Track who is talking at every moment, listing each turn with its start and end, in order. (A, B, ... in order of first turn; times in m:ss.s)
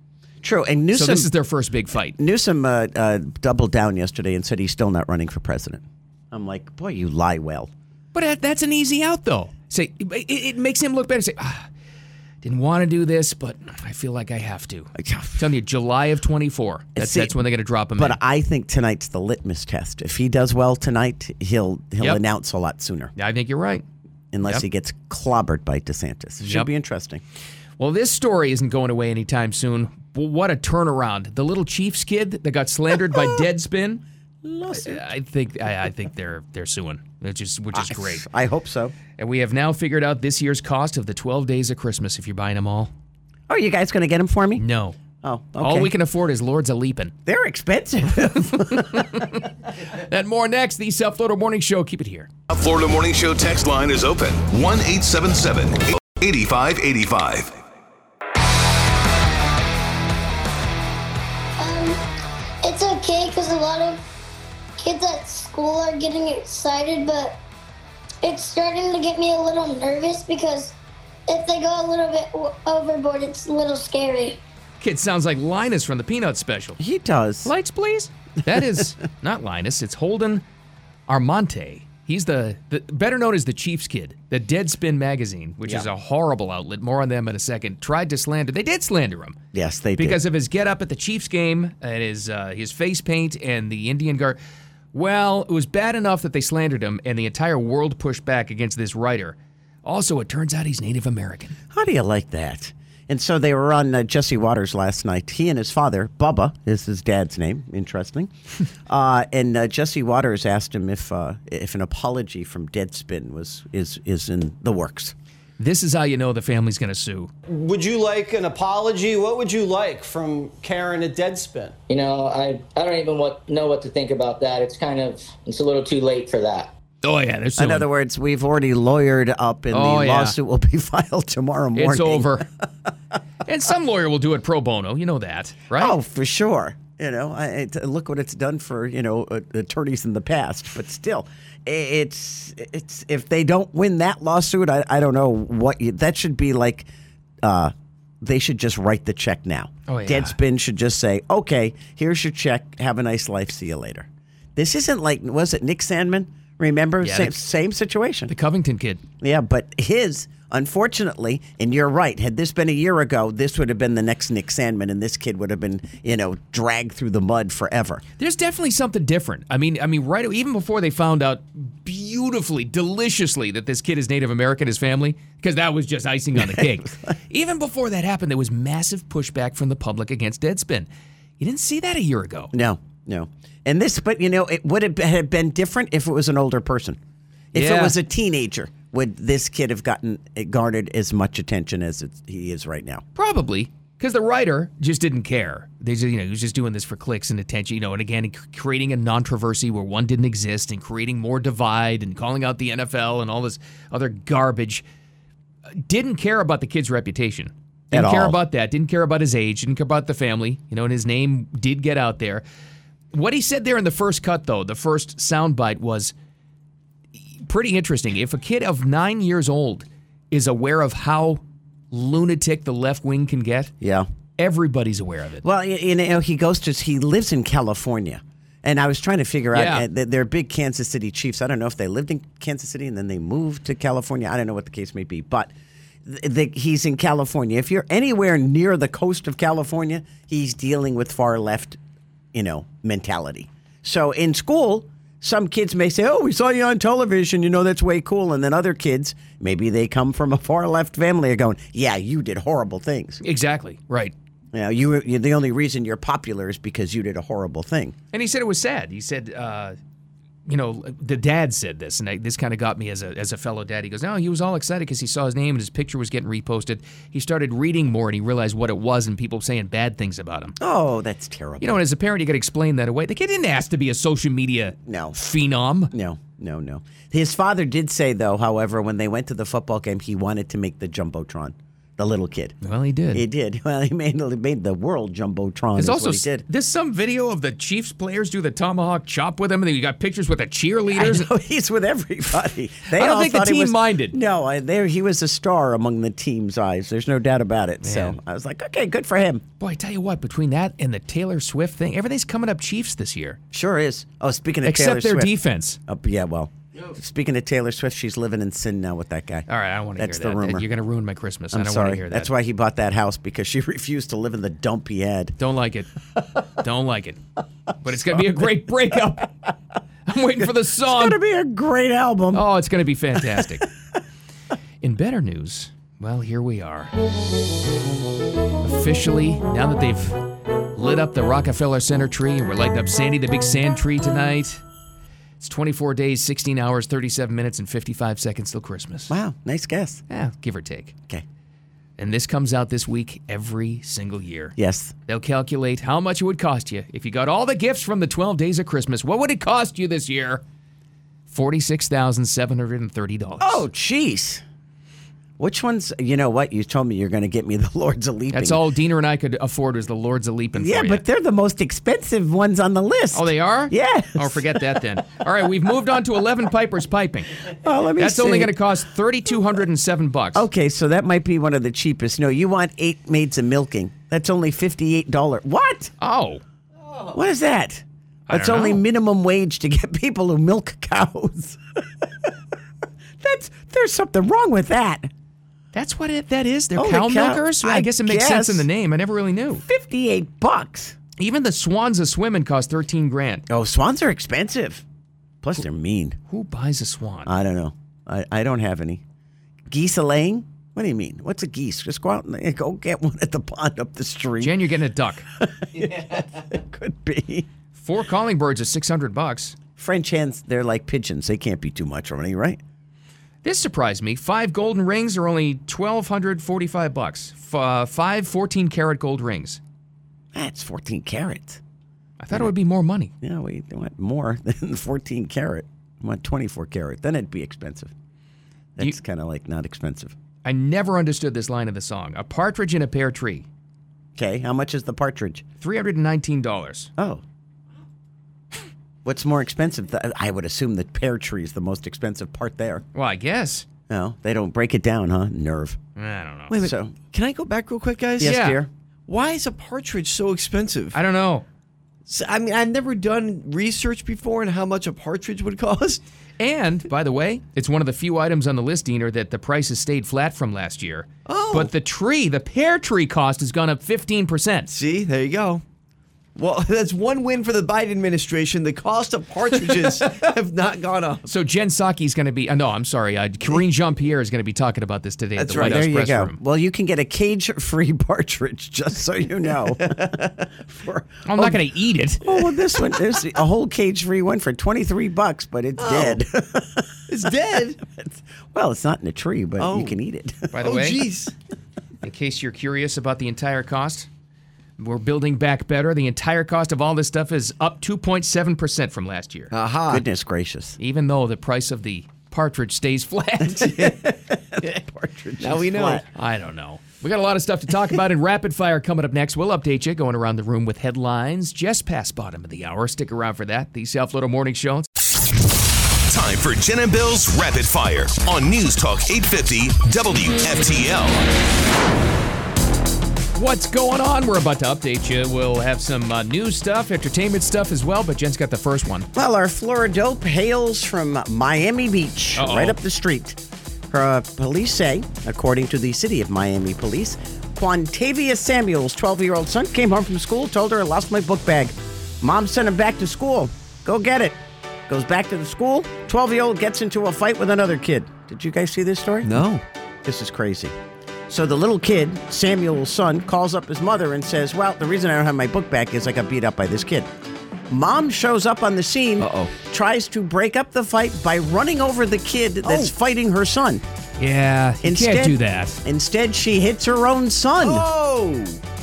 0:00.4-0:01.3 A
0:00.9-0:02.2 B
0:02.2-0:07.7 A
0:08.1-0:11.7 B
0:12.4-0:18.2 B
0:17.0-0:17.3 A
0:18.0-0:23.1 A
0:23.2-0:23.8 B
0:24.3-0:27.2 A
0:26.4-0:26.7 B
0:27.8-0:34.0 B
0:34.4-0:35.0 A
0:34.7-0:38.2 B
0:37.7-0:38.9 A
0:39.2-0:42.9 B
0:43.5-0:44.6 A
0:44.6-0:45.0 B
0:45.2-0:45.9 A
0:45.6-0:47.1 B
0:47.2-0:49.2 A
0:48.4-0:52.3 B
0:52.5-0:57.6 C
1:01.6-1:02.0 D
1:02.6-1:04.0 D
1:04.8-1:07.4 D
1:08.2-1:10.8 D
1:11.3-1:14.4 D
1:14.8-1:16.8 B
1:16.8-1:17.5 A
1:17.4-1:20.4 B
1:18.5-1:18.8 A
1:21.1-1:29.4 B
1:29.5-1:30.2 A
1:30.0-1:34.4 B
1:34.9-1:41.5 B
1:41.7-1:48.3 A
1:48.9-1:55.1 A
1:55.6-1:57.3 B
1:57.5-2:01.7 E
2:01.9-2:06.7 F
2:07.0-2:07.9 B
2:07.6-2:12.6 A
2:09.7-2:10.4 B
2:11.8-2:12.5 B
2:13.4-2:15.9 B
2:15.7-2:26.9 A
2:27.4-2:38.3 A
2:29.9-2:30.4 B
2:37.0-2:37.4 B
2:38.3-2:39.0 B
2:39.2-2:48.0 A
2:48.2-3:00.9 B
2:56.4-2:57.1 A
3:01.4-3:02.5 B
3:02.5-3:07.0 A
3:07.5-3:13.0 A
3:07.5-3:08.0 B
3:13.1-3:24.8 B
3:25.8-3:32.4 B
3:27.9-3:28.4 A
3:33.1-3:36.1 B
3:37.4-3:41.4 B
3:41.9-3:43.7 B
3:43.8-3:44.1 A
3:44.4-3:45.4 B
3:45.4-3:55.5 A
3:49.5-3:49.8 B
3:56.0-4:01.8 A
4:02.3-4:13.2 A
4:13.2-4:14.1 B
4:14.5-4:18.0 A
4:18.1-4:19.8 B
4:20.5-4:30.6 B
4:30.6-4:31.8 A
4:31.6-4:35.9 B
4:34.8-4:35.2 A
4:35.9-4:42.6 A
4:42.6-4:43.2 B
4:43.1-4:46.4 A
4:45.8-4:51.3 B
4:50.9-4:59.4 A
4:52.9-4:54.2 B
4:57.8-4:58.2 B
4:59.6-5:03.4 B
5:03.5-5:05.3 A
5:04.6-5:05.8 B
5:05.9-5:09.4 A
5:09.5-5:12.3 B
5:10.0-5:10.6 A
5:11.5-5:15.4 A
5:15.4-5:15.9 B
5:16.5-5:17.2 B
5:17.8-5:19.3 B
5:20.1-5:21.2 B
5:20.4-5:22.4 A
5:22.3-5:23.7 B
5:24.8-5:26.9 B
5:28.6-5:30.2 B
5:30.7-5:34.6 B
5:35.4-5:39.1 B
5:39.1-5:40.0 A
5:40.1-5:40.9 B
5:42.0-5:44.6 B
5:44.6-5:44.9 A
5:45.1-5:50.4 B
5:51.3-5:53.6 B
5:53.4-5:54.4 A
5:55.4-5:58.6 A
5:58.3-6:01.0 B
6:00.5-6:04.8 A
6:03.1-6:07.4 B
6:07.5-6:08.6 A
6:08.0-6:10.5 B
6:10.3-6:15.9 A
6:16.0-6:16.4 B
6:17.1-6:22.3 A
6:18.3-6:18.8 B
6:23.2-6:25.1 A
6:25.7-6:29.6 B
6:26.8-6:28.6 A
6:29.7-6:31.0 A
6:31.2-6:33.4 B
6:33.5-6:34.8 A
6:35.4-6:36.2 A
6:36.3-6:37.3 B
6:37.2-6:39.0 A
6:39.7-6:44.6 A
6:44.4-6:45.2 B
6:45.4-6:47.5 A
6:47.7-6:49.6 B
6:49.8-6:52.6 A
6:53.4-6:59.6 B
7:00.3-7:01.6 A
7:02.2-7:03.1 B
7:03.2-7:07.9 A
7:08.8-7:10.1 A
7:10.4-7:13.4 B
7:14.2-7:15.4 A
7:15.6-7:16.9 B
7:17.0-7:17.2 A
7:19.0-7:22.8 A
7:22.9-7:23.6 B
7:23.9-7:25.8 A
7:26.0-7:26.5 B
7:26.5-7:28.4 G
7:26.6-7:27.0 A
7:28.2-7:28.7 A
7:28.2-7:28.6 B
7:29.1-7:31.0 G
7:30.9-7:31.4 B
7:32.0-7:36.0 G
7:36.4-7:44.7 B
7:41.2-7:41.7 G
7:44.7-7:45.6 G
7:46.4-7:51.2 G
7:49.8-7:50.2 B
7:51.2-7:56.4 B
7:55.4-7:55.8 G
7:55.6-8:01.6 A
7:59.8-8:00.2 G
8:01.2-8:02.5 B
8:02.2-8:06.9 A
8:05.8-8:06.2 G
8:07.1-8:07.8 G
8:07.8-8:10.5 A
8:09.6-8:10.0 G
8:10.5-8:11.0 B
8:10.6-8:11.3 G
8:12.0-8:14.1 B
8:14.8-8:19.5 B
8:19.5-8:20.0 G
8:19.9-8:20.8 A
8:20.8-8:24.0 B
8:23.6-8:26.0 A
8:25.4-8:26.0 G
8:26.1-8:34.9 B
8:36.1-8:41.3 C
8:43.3-8:49.1 B
8:49.1-9:09.4 A
8:52.4-8:52.8 B
9:09.2-9:09.6 G
9:10.0-9:10.7 A
9:11.3-9:17.1 A
9:17.7-9:23.8 A
9:19.2-9:19.5 G
9:24.2-9:25.8 B
9:24.8-9:27.8 A
9:27.6-9:28.6 G